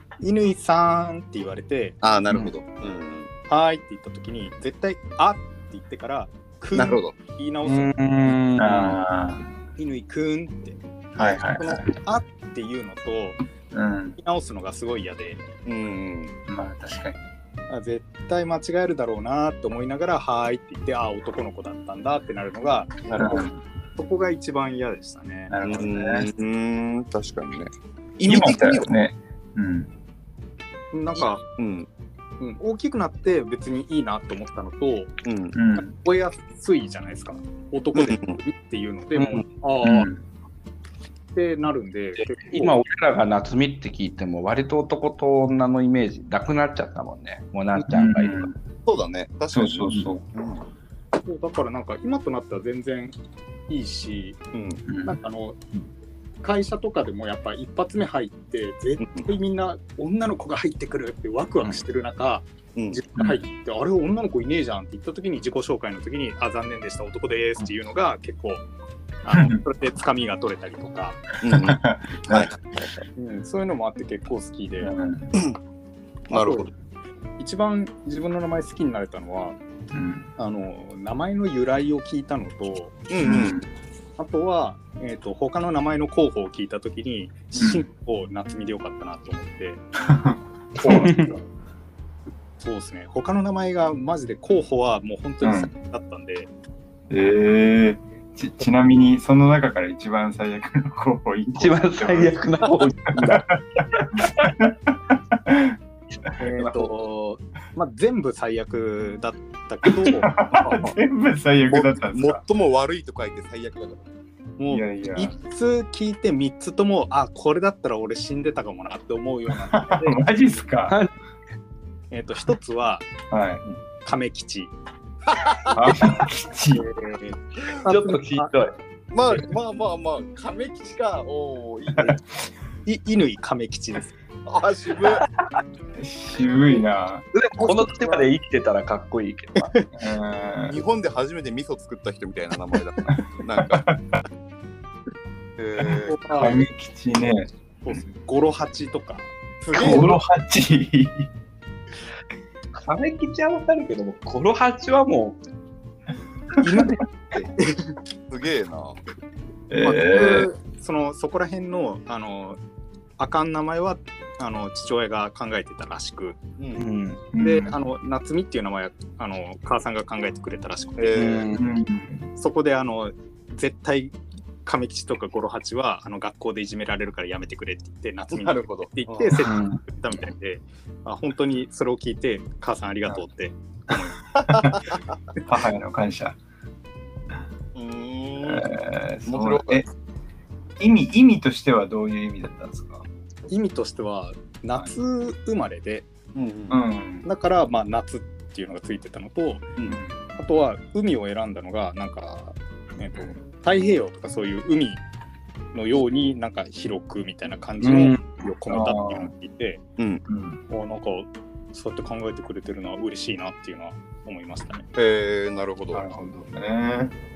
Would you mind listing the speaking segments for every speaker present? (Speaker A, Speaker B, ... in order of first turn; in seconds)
Speaker A: 0.2-2.0, 3.5-8.0, 9.8-10.8, 11.6-13.4, 14.2-15.4, 17.7-23.0, 24.0-25.5, 30.9-31.4, 32.4-35.1, 35.8-40.1, 41.4-42.8, 51.2-53.1, 53.7-54.4, 55.0-55.6, 56.4-68.7, 69.2-71.2, 73.2-74.9, 76.3-76.7, 77.4-79.6, 80.4-83.0, 84.2-89.8, 92.6-96.5, 106.4-110.3, 114.6-120.2, 122.1-123.1, 124.0-124.7, 126.7-128.5, 132.9-134.1, 137.6-138.3, 139.6-139.9, 146.1-146.6, 147.8-150.1, 156.6-157.9, 159.8-162.6, 163.2-166.4, 167.4-171.4, 172.4-184.2, 193.5-196.1, 197.2-199.7, 200.4-205.0, 205.7-209.8, 210.7-214.9
Speaker B: 2.0-3.3, 6.8-7.1, 15.7-16.3, 23.1-23.4, 25.6-28.9, 31.5-31.9, 35.2-35.6, 38.0-38.4, 48.9-50.6, 54.5-54.8, 59.0-59.3, 62.8-63.0, 71.4-73.0, 76.3-76.7, 83.1-83.6, 111.7-114.1, 125.3-125.8, 129.1-132.2, 134.5-135.2, 140.7-143.9, 145.6-146.3, 149.7-150.1, 158.3-159.0, 166.6-166.9, 171.0-171.5, 178.3-179.4, 187.8-188.7, 189.3-189.9, 196.3-196.8, 210.0-210.2, 214.9-216.1
Speaker C: 7.7-9.0, 39.1-39.5, 42.4-48.5, 90.8-91.3, 101.5-104.5, 106.3-106.9, 120.9-121.1, 127.8-128.8, 137.3-139.7, 152.7-155.4, 166.8-167.2, 171.2-171.7, 179.4-179.8, 207.8-208.2
Speaker D: 8.6-9.5, 11.2-11.9, 13.7-14.2, 16.5-17.2, 23.2-23.6, 25.5-26.3, 28.2-29.9, 35.5-35.9, 39.8-40.2, 47.9-48.6, 49.5-50.2, 54.9-55.2, 69.3-69.6, 71.5-72.5, 74.8-75.3, 79.9-80.3, 83.2-83.7, 87.6-87.8, 90.1-91.3, 95.4-95.7, 97.1-105.8, 110.0-112.4, 114.7-115.3, 119.7-121.0, 123.3-123.6, 125.7-126.9, 136.0-137.3, 139.9-140.8, 143.6-144.2, 145.8-147.5, 149.7-151.3, 159.7-160.5, 167.3-167.8, 171.6-172.3, 179.5-179.8, 185.4-186.4, 188.4-189.9, 190.8-193.1, 196.7-197.3, 199.9-200.2, 208.7-209.3, 210.3-210.6, 215.9-217.2